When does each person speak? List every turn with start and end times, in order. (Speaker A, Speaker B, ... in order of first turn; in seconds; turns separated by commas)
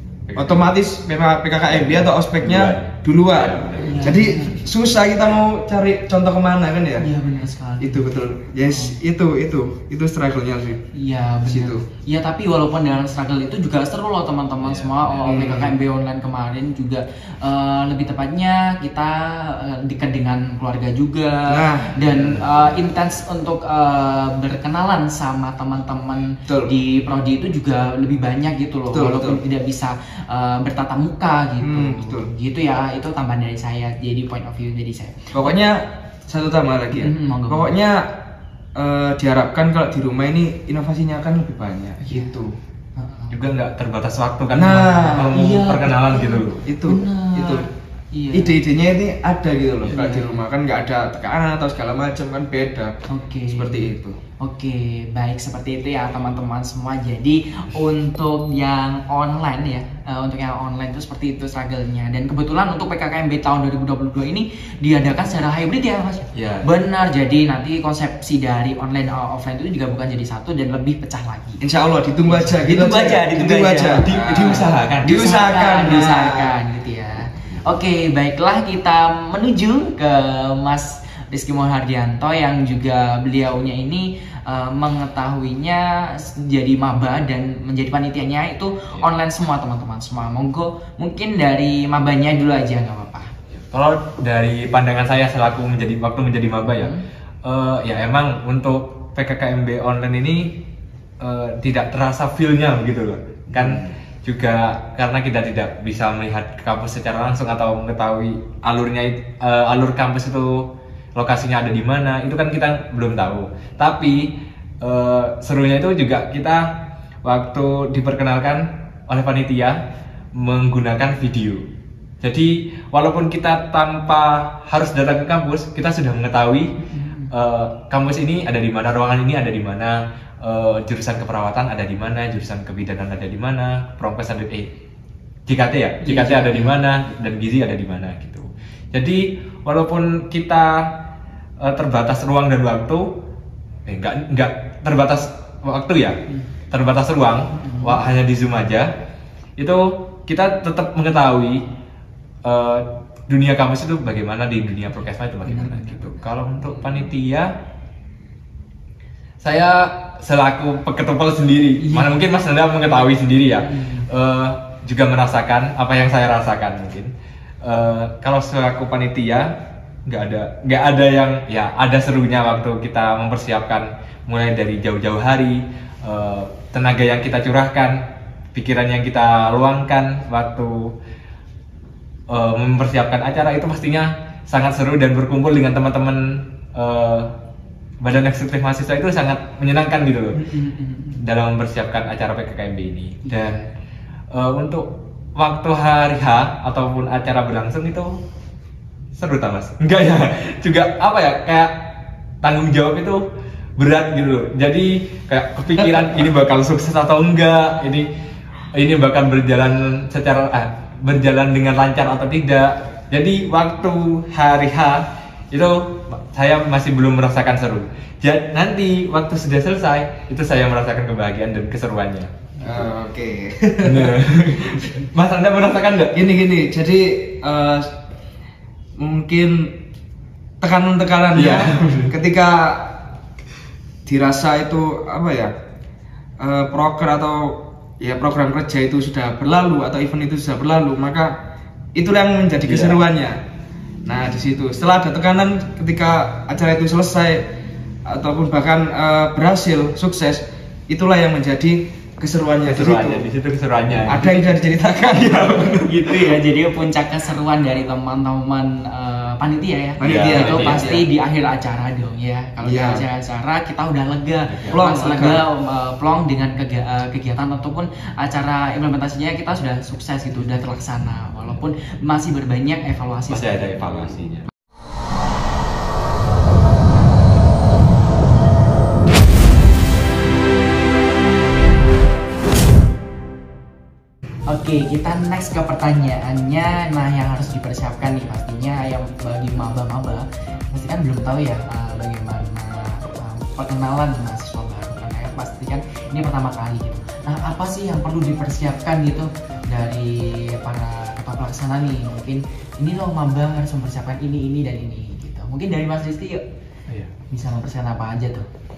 Speaker A: 0.3-0.7, Speaker B: 0.3-7.1, Speaker A: 1.8-4.2, Speaker C: 3.8-4.6, Speaker C: 7.0-8.9, Speaker B: 7.8-10.9, Speaker C: 10.9-35.5, Speaker B: 11.5-11.8, Speaker A: 14.6-15.2, Speaker B: 15.2-15.8, Speaker B: 21.5-22.1, Speaker B: 28.9-29.4, Speaker B: 31.6-32.3, Speaker B: 35.3-38.1, Speaker C: 37.0-37.7, Speaker B: 38.8-42.5, Speaker C: 42.0-42.4, Speaker C: 43.0-43.3, Speaker A: 43.3-46.6, Speaker B: 44.5-45.4, Speaker C: 45.3-48.6, Speaker B: 46.6-47.6, Speaker B: 48.3-53.0, Speaker C: 49.9-50.4, Speaker C: 53.1-71.6, Speaker B: 53.5-54.2, Speaker A: 66.3-66.7, Speaker B: 71.6-76.5, Speaker C: 72.3-93.3, Speaker A: 74.0-75.2, Speaker A: 93.5-96.9, Speaker A: 97.4-100.6, Speaker A: 101.2-119.8, Speaker A: 120.3-121.7, Speaker A: 122.2-126.8, Speaker C: 126.8-127.3, Speaker A: 127.3-134.7, Speaker A: 135.5-141.0, Speaker C: 136.0-136.8, Speaker A: 141.6-143.2, Speaker A: 143.9-148.9, Speaker C: 147.6-148.0, Speaker A: 149.6-151.7, Speaker A: 152.4-157.5, Speaker C: 155.5-156.2, Speaker A: 159.4-167.1, Speaker C: 161.8-162.1, Speaker C: 163.6-164.1, Speaker A: 167.6-181.0, Speaker A: 182.3-187.3, Speaker A: 188.0-190.4, Speaker C: 190.3-191.2, Speaker A: 191.2-193.6, Speaker C: 193.2-193.7, Speaker A: 194.3-198.2, Speaker A: 199.2-203.2, Speaker A: 203.8-208.1, Speaker A: 208.7-222.3, Speaker B: 222.6-224.8, Speaker A: 223.8-226.2, Speaker B: 226.1-227.9, Speaker B: 229.0-229.8, Speaker B: 230.6-233.0, Speaker A: 231.3-232.2, Speaker B: 234.1-235.5, Speaker B: 236.4-241.3, Speaker B: 241.9-243.4, Speaker A: 242.7-243.0, Speaker B: 244.0-247.5, Speaker B: 248.1-253.2, Speaker A: 252.7-254.5, Speaker B: 254.1-256.2, Speaker C: 255.3-274.2, Speaker B: 260.0-261.1, Speaker A: 260.0-261.0, Speaker B: 262.6-263.0, Speaker A: 264.5-264.8, Speaker B: 264.7-265.5, Speaker A: 273.3-274.5, Speaker C: 284.5-306.4, Speaker C: 307.3-308.5